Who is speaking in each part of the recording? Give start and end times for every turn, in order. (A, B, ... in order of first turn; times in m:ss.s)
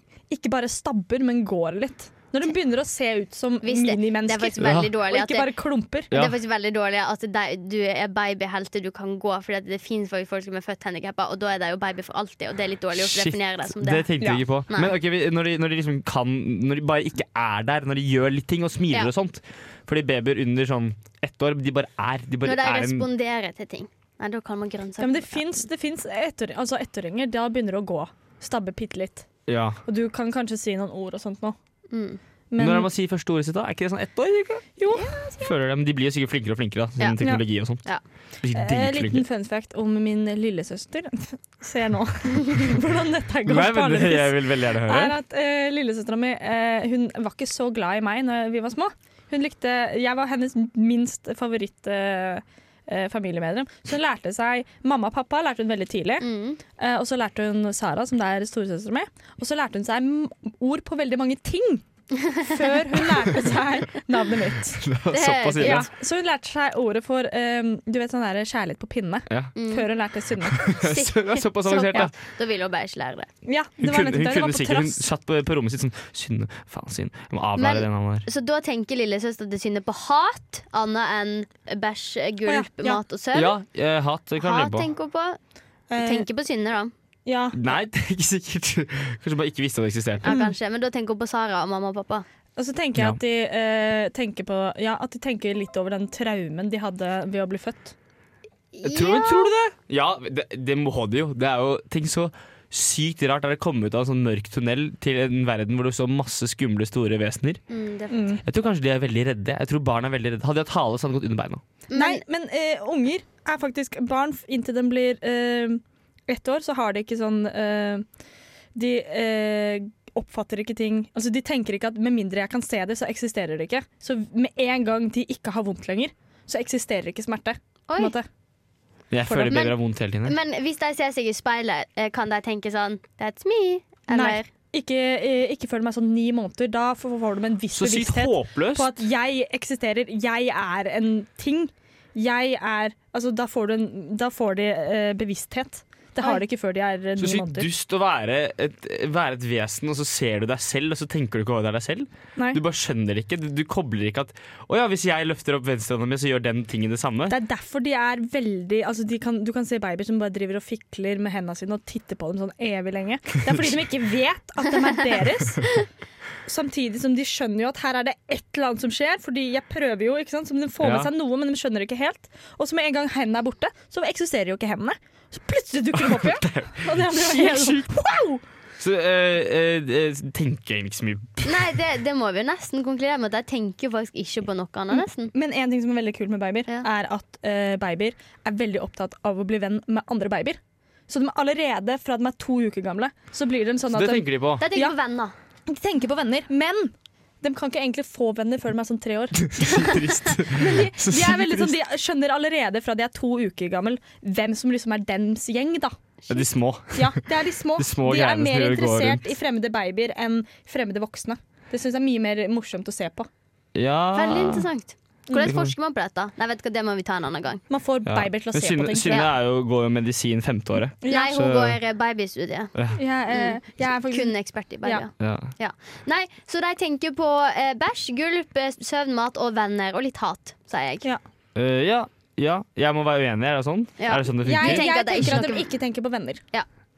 0:00.3-0:06.1 A
0:03.6-0:05.5 B
0:04.6-0:04.9 C
0:06.1-0:06.4 C
0:06.1-0:14.1 B
0:12.9-0:23.1 C
0:14.7-0:14.9 B
0:22.4-0:25.6 B
0:25.0-0:29.3 A
0:29.5-0:29.8 C
0:29.8-0:31.6 A
0:31.9-0:32.2 B
0:32.5-0:32.9 A
0:32.6-0:34.7 C
0:34.8-0:35.5 A
0:35.4-0:37.8 C
0:38.4-0:39.2 C
0:38.5-0:56.2 A
0:43.4-0:45.2 C
0:56.2-0:56.6 B
0:56.8-1:04.8 A
1:04.8-1:05.9 C
1:05.1-1:05.9 B
1:05.6-1:10.7 A
1:09.6-1:09.9 B
1:10.5-1:12.1 C
1:10.8-1:13.3 B
1:13.4-1:15.0 A
1:13.8-1:18.3 C
1:17.6-1:23.5 B
1:22.4-1:23.0 A
1:23.3-1:24.9 C
1:24.4-1:25.4 B
1:25.9-1:26.3 A
1:26.0-1:26.9 B
1:27.2-1:27.6 A
1:27.5-1:30.4 C
1:30.2-1:32.2 B
1:30.2-1:30.5 A
1:32.6-1:37.9 A
1:38.7-1:39.5 B
1:38.8-1:47.6 C
1:47.7-1:48.2 B
1:48.1-1:48.4 A
1:48.4-1:51.6 C
1:51.9-1:52.2 B
1:51.9-1:58.0 A
1:58.7-2:08.3 A
2:07.9-2:08.1 B
2:09.1-2:10.3 C
2:09.3-2:09.6 A
2:09.5-2:14.5 B
2:14.1-2:27.7 A
2:17.7-2:18.9 C
2:27.2-2:37.4 C
2:32.4-2:32.6 A
2:37.3-2:45.8 A
2:46.4-2:58.4 A
2:50.8-2:51.1 C
2:55.9-2:58.0 C
2:58.8-3:01.7 C
3:01.4-3:05.3 B
3:04.9-3:14.9 A
3:13.9-3:14.6 C
3:14.6-3:15.3 B
3:15.7-3:26.0 A
3:19.5-3:21.7 C
3:26.3-3:27.2 C
3:26.9-3:33.3 A
3:27.8-3:29.2 C
3:33.7-3:34.7 C
3:34.1-3:37.6 B
3:35.4-3:35.7 C
3:37.7-3:39.2 A
3:38.0-3:41.8 C
3:41.0-3:41.4 A
3:41.0-3:42.7 B
3:42.9-3:45.0 A
3:43.3-3:51.0 B
3:45.2-3:45.5 C
3:51.5-3:55.3 C
3:54.0-3:55.7 B
3:54.4-3:56.4 A